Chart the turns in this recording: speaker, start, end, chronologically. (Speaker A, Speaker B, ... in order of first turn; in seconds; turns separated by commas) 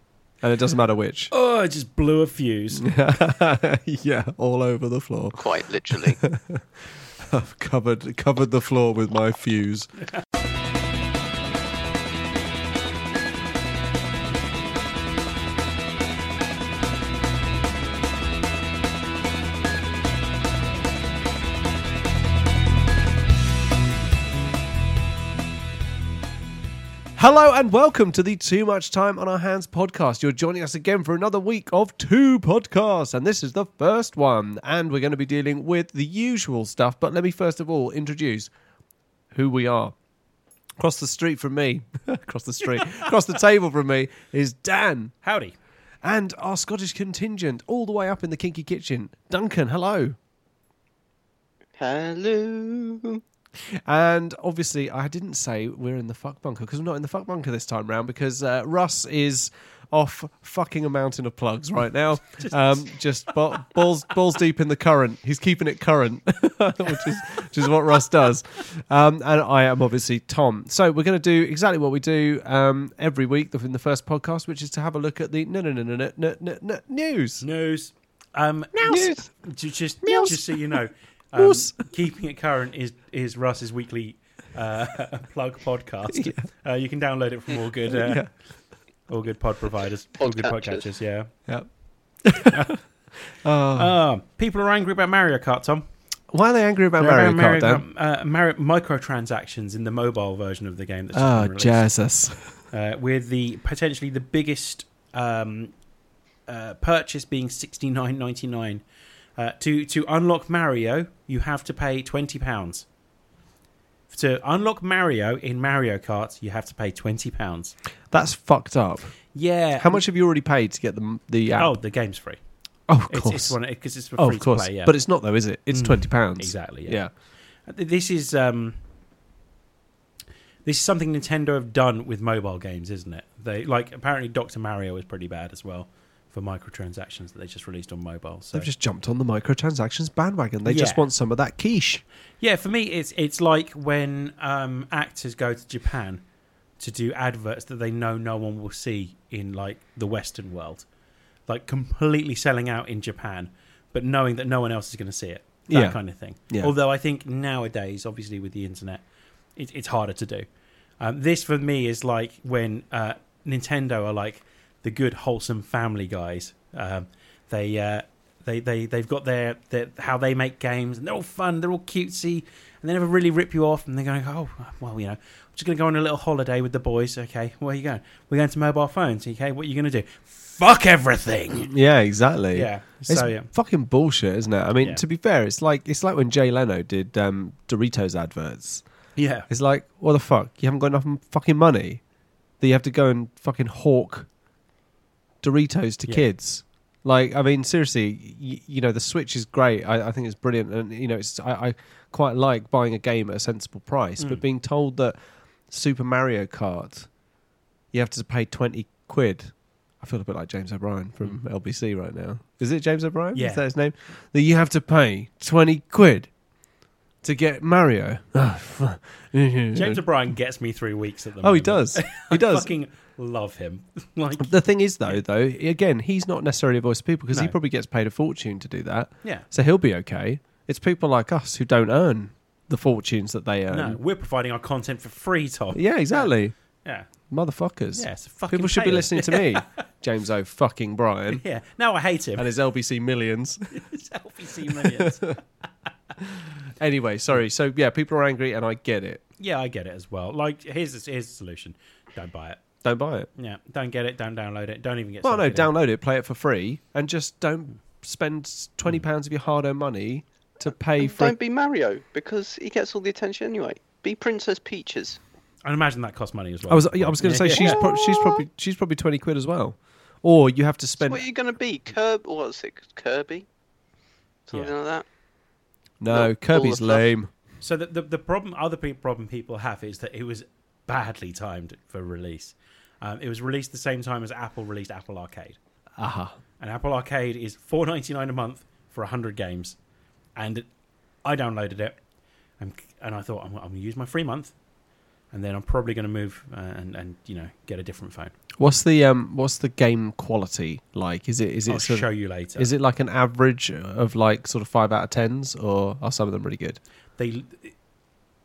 Speaker A: 0.4-1.3, Speaker B: 1.3-2.9, Speaker A: 2.8-6.7, Speaker C: 5.4-6.2, Speaker A: 7.2-9.9, Speaker A: 27.2-38.5, Speaker A: 39.3-39.9, Speaker A: 40.8-45.2, Speaker B: 45.2-45.5, Speaker A: 46.0-50.2, Speaker C: 51.8-53.2, Speaker A: 53.9-77.5, Speaker B: 62.3-62.8, Speaker B: 77.4-88.2, Speaker A: 78.8-79.2, Speaker C: 78.9-79.2, Speaker A: 80.0-80.6, Speaker A: 81.4-81.8, Speaker A: 86.1-86.4, Speaker A: 87.9-88.3, Speaker B: 89.1-91.3, Speaker C: 90.2-90.8, Speaker A: 91.5-92.7, Speaker B: 92.5-92.8, Speaker A: 93.3-94.0, Speaker B: 93.8-95.8, Speaker A: 96.3-97.8, Speaker B: 97.0-101.9, Speaker A: 101.1-102.6, Speaker B: 102.7-105.7, Speaker B: 106.5-108.8, Speaker B: 109.4-112.9, Speaker B: 114.1-117.8, Speaker A: 118.1-119.2, Speaker B: 119.3-120.0, Speaker A: 119.8-121.7, Speaker B: 121.6-122.4, Speaker A: 122.9-123.6, Speaker B: 123.1-125.0, Speaker A: 124.2-127.1, Speaker B: 125.7-127.0, Speaker B: 127.7-128.8, Speaker B: 130.7-138.7, Speaker A: 138.5-142.0, Speaker B: 140.7-141.1, Speaker B: 142.4-146.2, Speaker B: 146.8-150.9, Speaker B: 151.5-159.0, Speaker A: 155.7-156.0, Speaker B: 159.6-160.5, Speaker B: 161.0-181.7, Speaker A: 181.7-188.8, Speaker B: 182.5-183.5, Speaker B: 189.2-189.5, Speaker A: 189.5-192.0, Speaker A: 192.6-194.3, Speaker A: 195.4-205.2, Speaker A: 205.7-207.1, Speaker A: 207.9-216.3, Speaker B: 213.3-213.6, Speaker A: 217.2-220.0, Speaker B: 219.8-225.2, Speaker A: 221.4-222.7, Speaker A: 224.4-234.0, Speaker B: 233.7-236.3, Speaker A: 235.7-236.5, Speaker A: 237.3-241.4, Speaker B: 237.9-239.7, Speaker B: 241.3-242.5, Speaker A: 242.4-243.8, Speaker B: 243.7-245.4, Speaker A: 244.7-245.4, Speaker A: 246.2-249.2, Speaker B: 249.4-252.6, Speaker A: 252.8-253.3, Speaker B: 253.4-255.7, Speaker A: 255.2-261.4, Speaker C: 261.0-265.2, Speaker B: 265.6-267.8, Speaker A: 266.7-271.2, Speaker C: 267.5-268.4, Speaker C: 271.0-273.5, Speaker C: 274.5-275.1, Speaker A: 276.0-277.3, Speaker C: 276.1-277.1, Speaker B: 277.6-285.6, Speaker A: 286.0-286.4, Speaker B: 286.6-289.8, Speaker B: 290.4-290.7, Speaker B: 291.2-292.0, Speaker B: 292.6-294.5, Speaker B: 295.3-298.4, Speaker A: 298.6-306.8, Speaker B: 301.7-302.7, Speaker B: 307.2-307.7